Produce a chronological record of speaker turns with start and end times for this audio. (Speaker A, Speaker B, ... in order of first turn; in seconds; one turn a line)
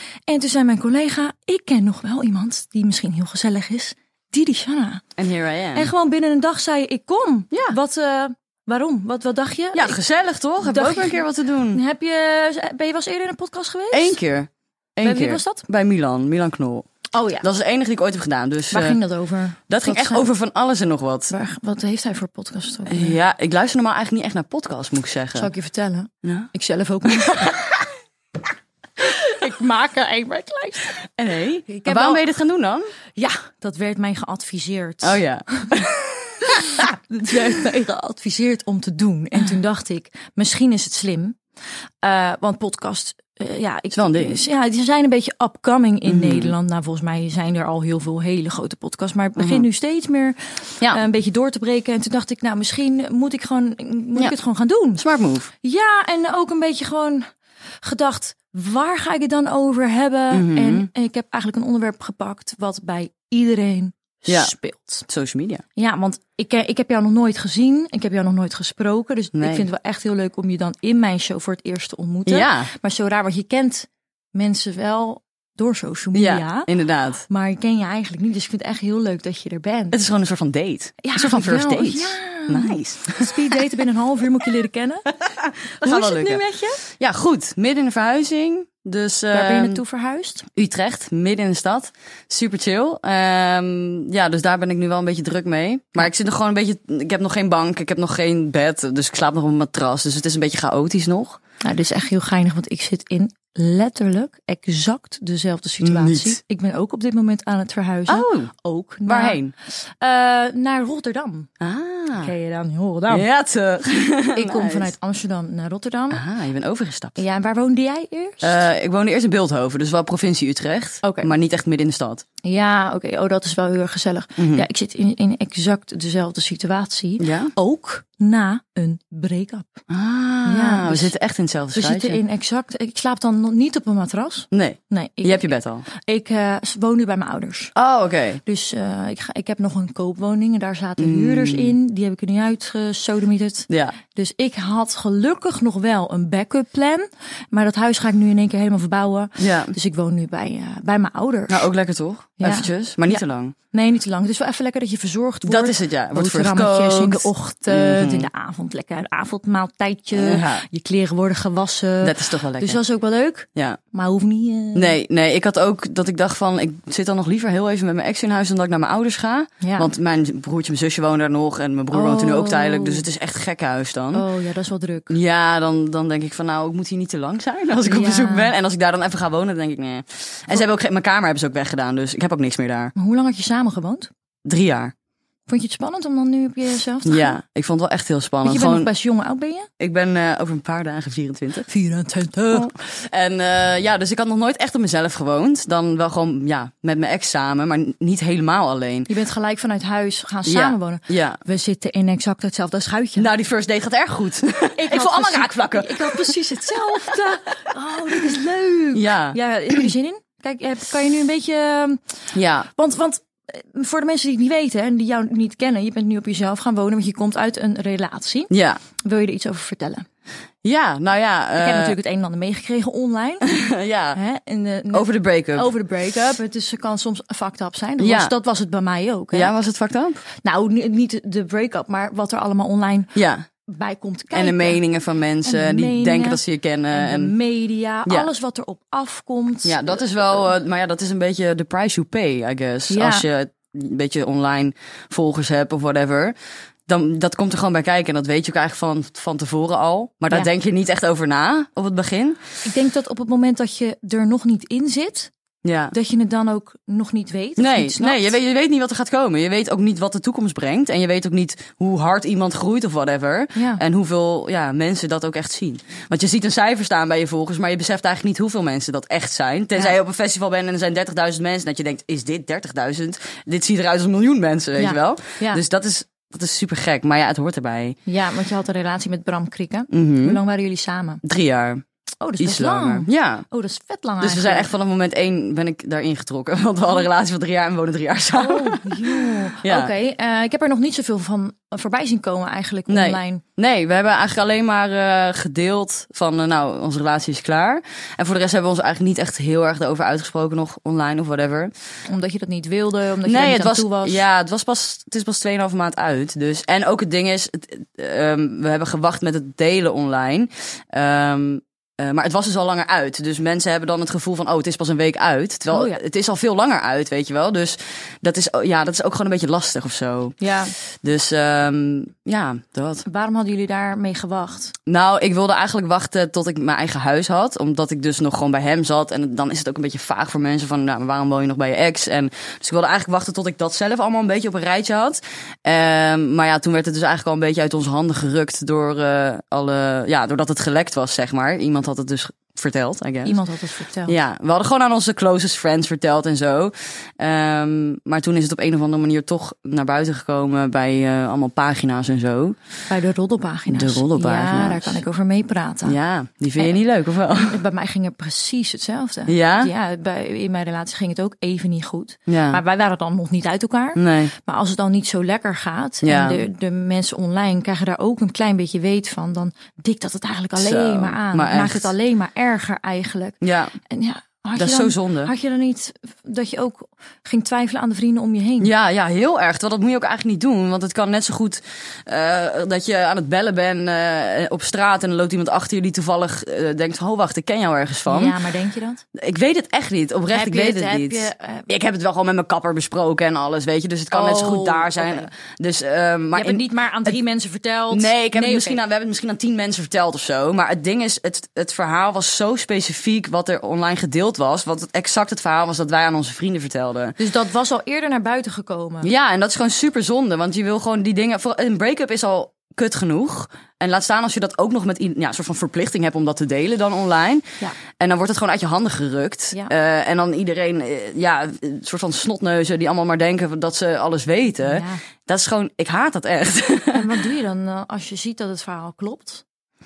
Speaker A: 0.3-5.0
Speaker B: 5.2-5.9
Speaker A: 5.7-10.0
Speaker B: 9.7-11.8
Speaker A: 10.6-14.2
Speaker B: 13.9-16.9
Speaker A: 15.0-15.6
Speaker A: 17.1-17.4
Speaker B: 17.4-19.0
Speaker A: 18.7-20.3
Speaker B: 19.7-21.3
Speaker A: 21.3-23.2
Speaker B: 22.9-25.5
Speaker A: 25.3-27.8
Speaker B: 26.2-26.5
Speaker A: 29.0-31.0
Speaker B: 31.2-32.9
Speaker A: 31.7-32.2
Speaker A: 33.1-35.7
Speaker B: 35.0-36.8
Speaker A: 36.5-41.4
Speaker A: 42.0-55.0
Speaker B: 43.9-44.4
Speaker B: 46.0-46.5
Speaker B: 49.4-49.6
Speaker B: 55.0-55.5
Speaker A: 55.6-57.3
Speaker A: 57.8-65.0
Speaker B: 60.3-60.9
Speaker B: 64.2-64.5
Speaker B: 65.1-65.6
Speaker A: 65.8-76.7
Speaker B: 69.3-69.7
Speaker B: 72.3-72.7
Speaker B: 76.1-77.2
Speaker A: 77.3-80.0
Speaker B: 79.9-83.3
Speaker A: 81.0-85.1
Speaker B: 85.2-89.8
Speaker A: 85.8-86.8
Speaker A: 89.3-90.4
Speaker B: 90.5-101.4
Speaker A: 101.6-111.5
Speaker B: 105.8-106.4
Speaker B: 108.1-108.5
Speaker B: 109.0-109.5
Speaker B: 111.6-112.3
Speaker A: 112.2-113.3
Speaker B: 113.1-114.9
Speaker A: 114.3-116.2
Speaker B: 116.1-117.2
Speaker A: 117.2-118.6
Speaker B: 118.4-122.2
Speaker A: 121.0-121.3
Speaker A: 122.4-129.8
Speaker B: 124.4-124.7
Speaker B: 127.2-127.5
Speaker B: 129.9-132.2
Speaker A: 130.4-131.1
Speaker A: 131.7-137.7
Speaker B: 134.5-135.8
Speaker B: 137.7-138.4
Speaker A: 138.4-151.7
Speaker B: 141.0-141.7
Speaker B: 143.7-143.9
Speaker B: 149.4-149.7
Speaker B: 151.5-153.5
Speaker A: 152.4-164.9
Speaker B: 155.4-158.3
Speaker B: 160.1-160.6
Speaker B: 162.0-162.8
Speaker B: 163.5-163.8
Speaker B: 164.7-174.2
Speaker A: 169.6-169.9
Speaker A: 171.9-173.0
Speaker A: 174.1-175.2
Speaker B: 175.1-182.9
Speaker A: 177.8-178.5
Speaker A: 182.9-184.1
Speaker B: 184.4-184.9
Speaker A: 185.5-187.3
Speaker B: 187.0-188.9
Speaker A: 188.4-189.7
Speaker B: 189.8-191.7
Speaker A: 191.7-192.7
Speaker B: 192.5-199.1
Speaker A: 199.1-203.3
Speaker B: 200.4-201.4
Speaker B: 203.2-206.4
Speaker A: 204.8-212.0
Speaker B: 208.9-209.9
Speaker B: 212.3-212.7
Speaker A: 212.7-220.0
Speaker B: 218.5-218.8
Speaker B: 220.6-222.0
Speaker A: 221.6-223.5
Speaker B: 223.4-224.2
Speaker A: 224.1-229.5
Speaker B: 224.9-225.7
Speaker B: 228.0-228.3
Speaker B: 229.3-230.2
Speaker A: 230.4-233.1
Speaker B: 233.1-233.4
Speaker A: 233.7-234.8
Speaker B: 234.3-237.3
Speaker A: 235.4-240.2
Speaker B: 239.6-246.3
Speaker A: 242.9-243.2
Speaker B: 246.9-252.4
Speaker A: 252.6-255.3
Speaker B: 255.6-255.9
Speaker A: 255.9-258.3
Speaker B: 257.6-278.0
Speaker A: 263.5-263.8
Speaker A: 274.8-275.6
Speaker A: 278.1-281.2
Speaker B: 279.9-280.4
Speaker B: 281.2-281.8
Speaker A: 282.2-284.7
Speaker B: 282.4-283.4
Speaker B: 284.2-289.9
Speaker A: 288.4-293.4
Speaker B: 292.9-301.7
Speaker A: 302.1-304.2
Speaker B: 303.2-320.4
Speaker A: 315.7-316.0
Speaker A: 320.4-320.7
Speaker B: 321.0-323.0
Speaker A: 323.0-324.7
Speaker B: 324.9-343.4
Speaker A: 343.2-344.1
Speaker B: 344.1-352.6
Speaker A: 352.9-355.9
Speaker B: 353.7-355.0
Speaker B: 355.8-357.6
Speaker A: 357.3-373.4
Speaker B: 359.3-359.7
Speaker B: 362.3-362.6
Speaker B: 363.9-364.3
Speaker B: 366.0-366.4
Speaker B: 370.6-371.9
Speaker B: 373.4-373.7
Speaker A: 373.9-378.7
Speaker B: 374.6-375.3
Speaker B: 378.6-388.4
Speaker A: 388.1-389.0
Speaker B: 389.1-397.1
Speaker A: 390.3-391.7
Speaker A: 394.1-395.3
Speaker A: 396.3-398.8
Speaker B: 397.9-407.1
Speaker A: 407.2-409.1
Speaker B: 409.0-427.1
Speaker A: 424.6-425.0
Speaker A: 426.9-429.4